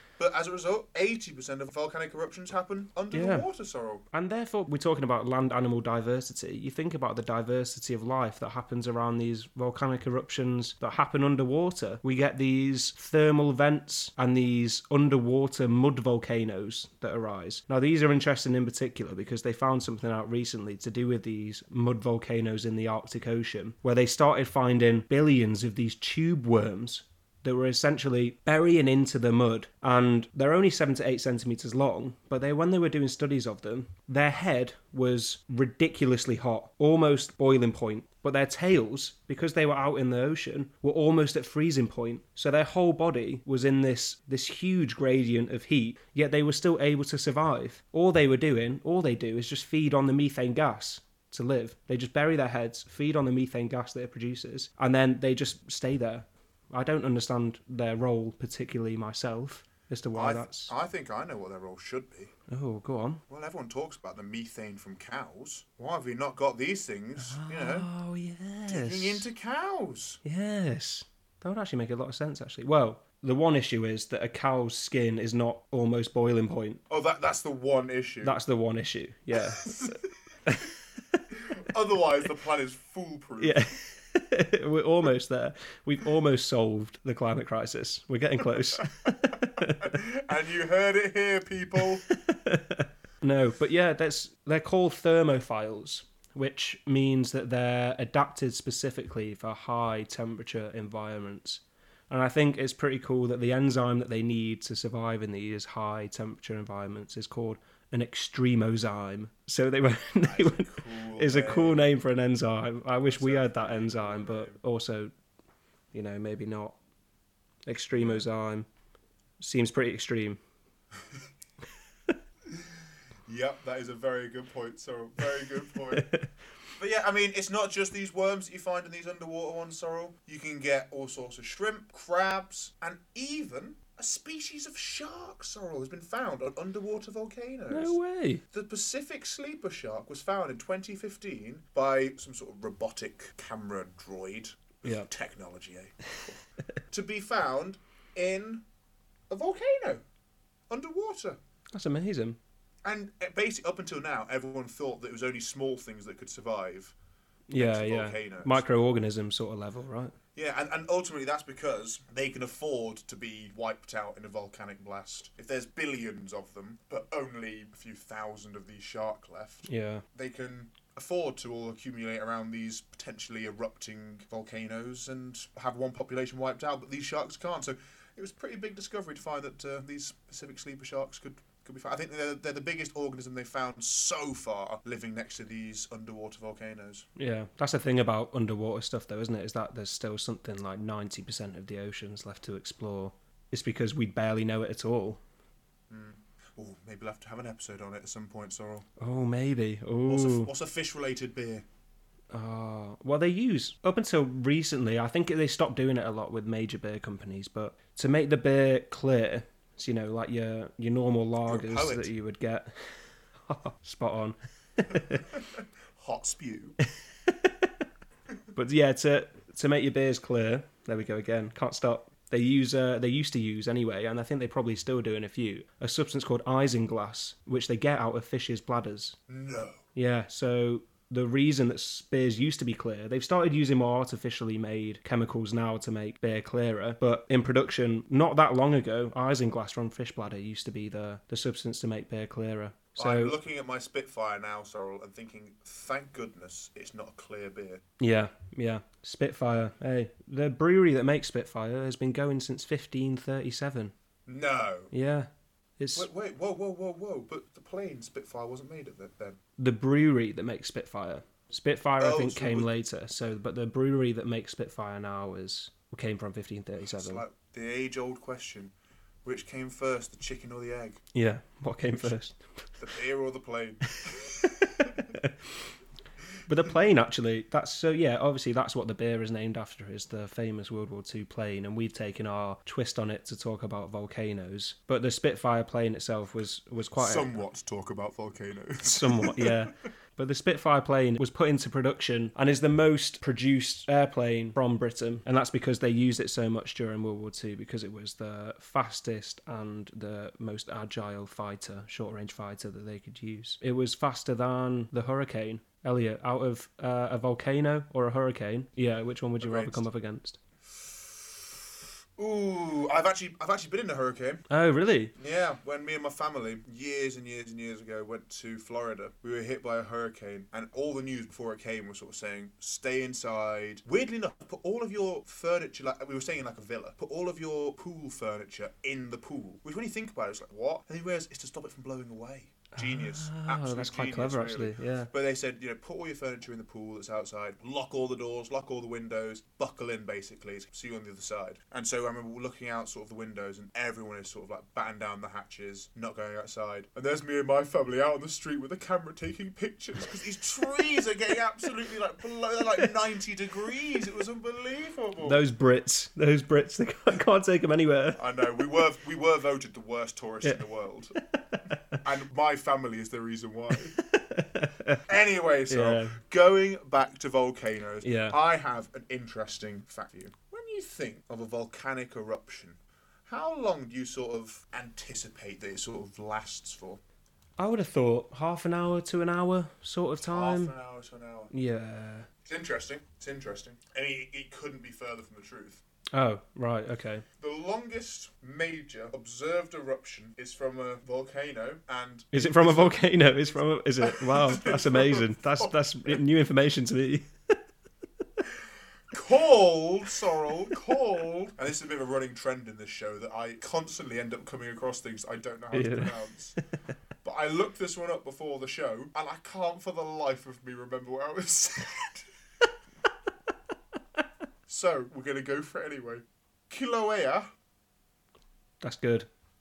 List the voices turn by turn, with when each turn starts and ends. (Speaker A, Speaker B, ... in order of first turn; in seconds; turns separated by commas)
Speaker A: 0.2-4.0, Speaker B: 3.1-3.5, Speaker B: 4.1-60.7, Speaker A: 60.1-62.3, Speaker B: 62.5-63.2, Speaker A: 63.3-67.9, Speaker B: 67.2-69.3, Speaker A: 68.7-70.2, Speaker B: 70.2-76.8, Speaker A: 76.9-78.4, Speaker B: 78.2-81.2, Speaker A: 79.5-80.0, Speaker A: 81.3-83.7, Speaker B: 83.4-90.0, Speaker A: 88.8-92.0, Speaker B: 92.1-115.1, Speaker A: 110.2-111.9, Speaker A: 113.0-114.6, Speaker B: 115.9-116.8, Speaker B: 117.7-118.7, Speaker A: 117.9-118.2, Speaker B: 119.4-120.4, Speaker A: 123.3-126.1, Speaker B: 125.9-126.3, Speaker A: 126.8-138.0, Speaker B: 137.7-138.4, Speaker A: 138.5-148.6, Speaker B: 144.8-145.1, Speaker A: 149.3-150.0, Speaker A: 150.7-151.4, Speaker B: 151.7-152.4, Speaker A: 152.8-156.9, Speaker B: 157.5-160.1, Speaker A: 157.6-158.7, Speaker A: 160.3-187.1, Speaker B: 169.7-170.0, Speaker B: 187.2-195.2, Speaker A: 195.9-198.9, Speaker B: 199.0-200.5, Speaker A: 200.1-201.6, Speaker B: 202.3-215.2, Speaker A: 211.4-212.1, Speaker A: 214.9-216.8, Speaker B: 217.2-217.7, Speaker B: 218.5-229.2, Speaker A: 229.3-229.8, Speaker B: 229.9-243.3, Speaker A: 242.9-247.8, Speaker B: 248.0-253.9, Speaker A: 254.3-254.9, Speaker B: 254.9-256.1, Speaker A: 255.9-259.4, Speaker B: 259.6-267.2, Speaker A: 262.0-262.7, Speaker A: 266.8-268.7, Speaker A: 269.2-271.0, Speaker B: 271.1-272.4, Speaker A: 272.8-275.1, Speaker B: 274.1-275.6, Speaker B: 276.5-287.4, Speaker A: 287.0-289.7, Speaker B: 288.9-310.4, Speaker A: 309.4-309.8, Speaker A: 312.2-314.4, Speaker B: 314.5-315.1, Speaker A: 315.2-355.4, Speaker B: 332.8-335.1, Speaker B: 355.2-358.2, Speaker A: 358.1-361.1, Speaker B: 361.3-362.0, Speaker A: 362.0-364.0, Speaker B: 363.9-365.0, Speaker A: 365.1-377.0, Speaker B: 365.7-366.1, Speaker B: 368.0-368.4, Speaker B: 377.6-380.7, Speaker A: 380.2-381.5, Speaker B: 381.5-382.3, Speaker A: 382.4-385.8, Speaker B: 386.1-387.2, Speaker A: 387.4-393.3, Speaker B: 392.3-397.3, Speaker A: 394.0-396.2, Speaker A: 399.1-406.6, Speaker B: 405.7-406.2, Speaker A: 407.2-412.2, Speaker A: 414.7-417.5, Speaker B: 418.8-419.3